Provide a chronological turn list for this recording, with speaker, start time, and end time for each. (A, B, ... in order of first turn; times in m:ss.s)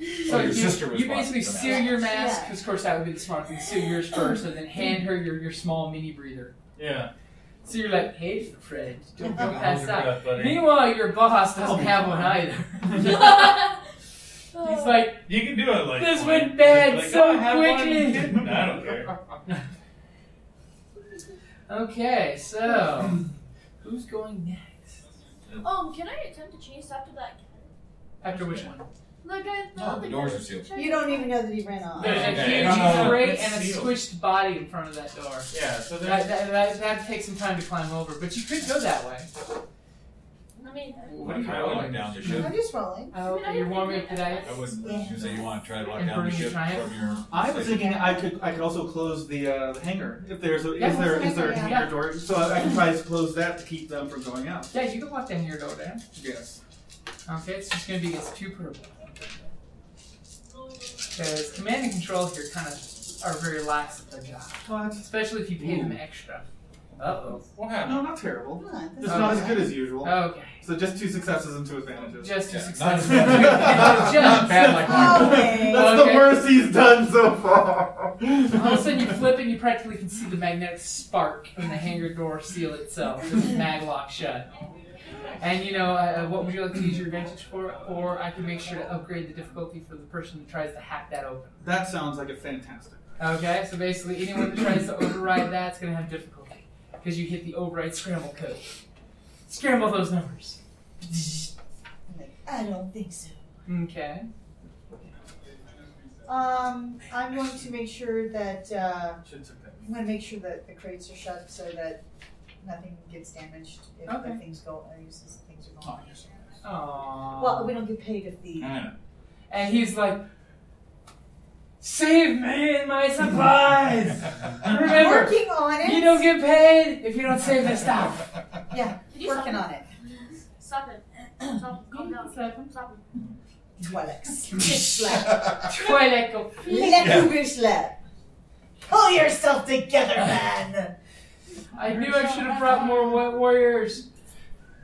0:00.2-0:02.0 A
0:00.2-0:06.5 B
0:01.6-0:02.6 C
0:06.8-0:07.1 D
0:07.6-0:13.7 B
0:09.2-0:10.7 D
0:11.6-0:12.1 E
0:13.0-0:13.8 F
0:14.5-0:15.1 F
0:14.6-0:15.2 B
0:15.2-0:19.1 D
0:15.9-0:18.4 B
0:21.7-0:23.2 B
0:23.8-0:25.0 B
0:25.6-0:27.7 F
0:28.2-0:28.8 B
0:28.3-0:28.7 A
0:29.2-0:31.6 F
0:29.7-0:30.7 A
0:30.7-0:32.7 C
0:32.0-0:39.3 B
0:32.0-0:33.9 D
0:32.3-0:33.3 A
0:35.5-0:36.3 D
0:40.6-0:41.3 F
0:41.0-0:42.5 B
0:41.2-0:42.6 A
0:41.2-0:42.4 D
0:42.3-0:43.1 C
0:43.1-0:44.6 B
0:43.2-0:45.1 F
0:44.4-0:45.3 D
0:44.8-0:45.2 C
0:44.9-0:48.0 A
0:45.9-0:47.0 B
0:47.3-0:54.7 E
0:50.8-0:52.0 B
0:50.8-0:51.9 C
0:54.7-0:56.0 B
0:56.1-0:56.6 E
0:57.3-0:59.1 B
1:01.1-1:07.4 B
1:04.6-1:05.1 E
1:07.5-1:08.1 D
1:07.8-1:12.4 E
1:08.6-1:09.7 C
1:09.0-1:10.6 B
1:12.2-1:16.4 B
1:12.5-1:15.5 A
1:13.0-1:18.8 E
1:14.8-1:16.0 C
1:18.5-1:24.5 B
1:25.4-1:31.6 B
1:31.6-1:33.0 E
1:33.2-1:38.6 B
1:39.5-1:40.6 B
1:42.1-1:43.4 C
1:43.6-1:44.3 B
1:46.2-1:49.2 C
1:49.2-1:49.9 D
1:49.8-1:52.0 C
1:52.6-1:56.5 C
1:54.1-1:54.4 B
1:56.6-1:57.8 B
1:57.3-1:58.8 C
1:58.6-1:58.9 D
1:59.5-2:00.2 B
2:01.8-2:08.2 B
2:04.6-2:06.2 C
2:08.7-2:09.8 C
2:09.1-2:13.0 F
2:11.9-2:12.7 B
2:13.8-2:15.9 C
2:15.6-2:17.2 B
2:16.6-2:18.0 C
2:17.0-2:17.3 A
2:18.9-2:20.9 C
2:21.7-2:24.0 B
2:21.8-2:23.2 C